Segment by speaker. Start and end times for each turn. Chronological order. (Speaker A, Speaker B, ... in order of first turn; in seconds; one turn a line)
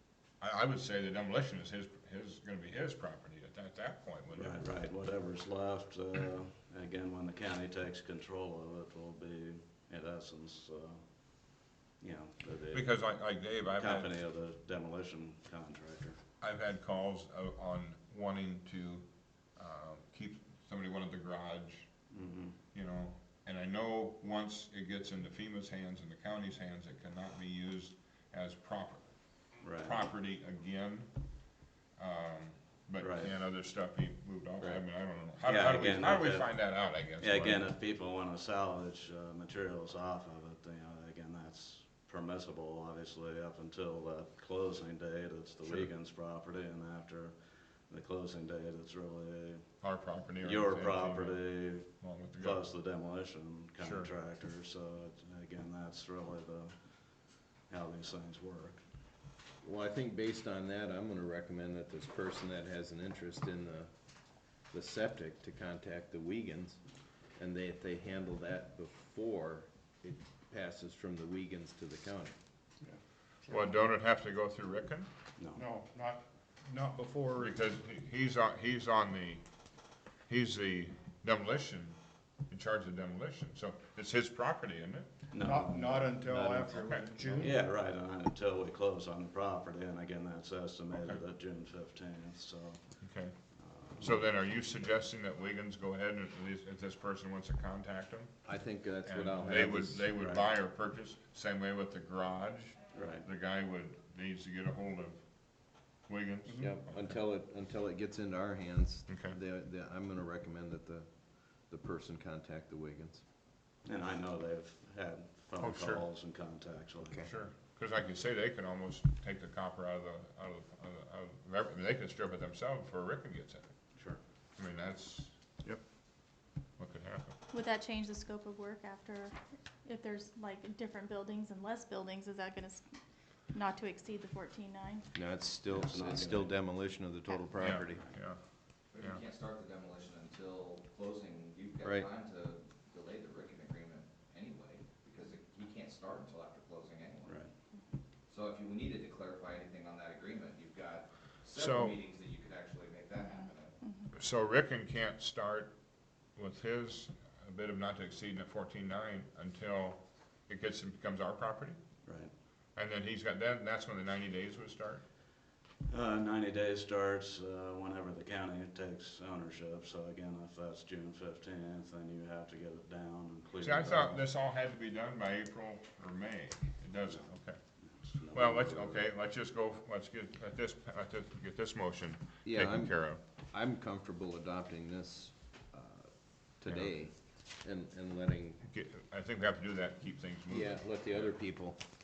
Speaker A: 0.4-4.6
Speaker B: 4.3-13.1
Speaker A: 12.7-14.1
Speaker B: 13.7-16.2
Speaker A: 16.4-21.9
Speaker B: 22.1-22.6
Speaker A: 22.7-29.1
Speaker B: 29.6-30.0
Speaker A: 29.8-31.1
Speaker A: 32.0-37.7
Speaker B: 33.0-33.3
Speaker B: 35.4-47.3
Speaker B: 47.9-49.7
Speaker A: 49.8-52.6
Speaker B: 50.4-58.8
Speaker A: 53.8-54.1
Speaker C: 59.6-63.9
Speaker C: 64.7-66.8
Speaker C: 67.3-72.3
Speaker D: 72.8-73.7
Speaker A: 73.5-75.1
Speaker B: 75.4-75.6
Speaker D: 75.5-77.5
Speaker A: 77.4-79.4
Speaker A: 80.3-82.0
Speaker A: 82.5-85.1
Speaker B: 85.3-86.2
Speaker D: 85.4-87.6
Speaker A: 86.3-87.5
Speaker B: 87.4-92.8
Speaker A: 90.9-91.2
Speaker A: 93.0-93.3
Speaker B: 93.6-94.3
Speaker A: 94.0-98.3
Speaker C: 98.4-100.1
Speaker A: 99.0-105.2
Speaker B: 100.2-100.5
Speaker B: 102.9-103.2
Speaker A: 106.1-107.2
Speaker C: 106.6-113.2
Speaker A: 109.1-109.3
Speaker B: 113.8-117.4
Speaker A: 115.6-116.0
Speaker A: 117.2-123.7
Speaker A: 124.6-125.3
Speaker A: 126.8-127.3
Speaker E: 127.5-132.8
Speaker E: 133.5-135.1
Speaker C: 135.1-138.0
Speaker B: 135.7-136.5
Speaker A: 137.6-138.4
Speaker F: 138.9-147.4
Speaker C: 141.8-142.1
Speaker B: 147.2-147.5
Speaker F: 148.3-153.7
Speaker A: 151.5-152.0
Speaker E: 153.4-154.1
Speaker A: 154.1-155.7
Speaker A: 156.3-161.8
Speaker B: 162.0-162.3
Speaker A: 162.8-165.0
Speaker B: 165.9-174.2
Speaker A: 173.6-177.6
Speaker B: 177.8-179.1
Speaker A: 178.3-183.2
Speaker C: 182.4-183.0
Speaker C: 183.5-188.6
Speaker A: 188.7-191.3
Speaker C: 190.5-191.8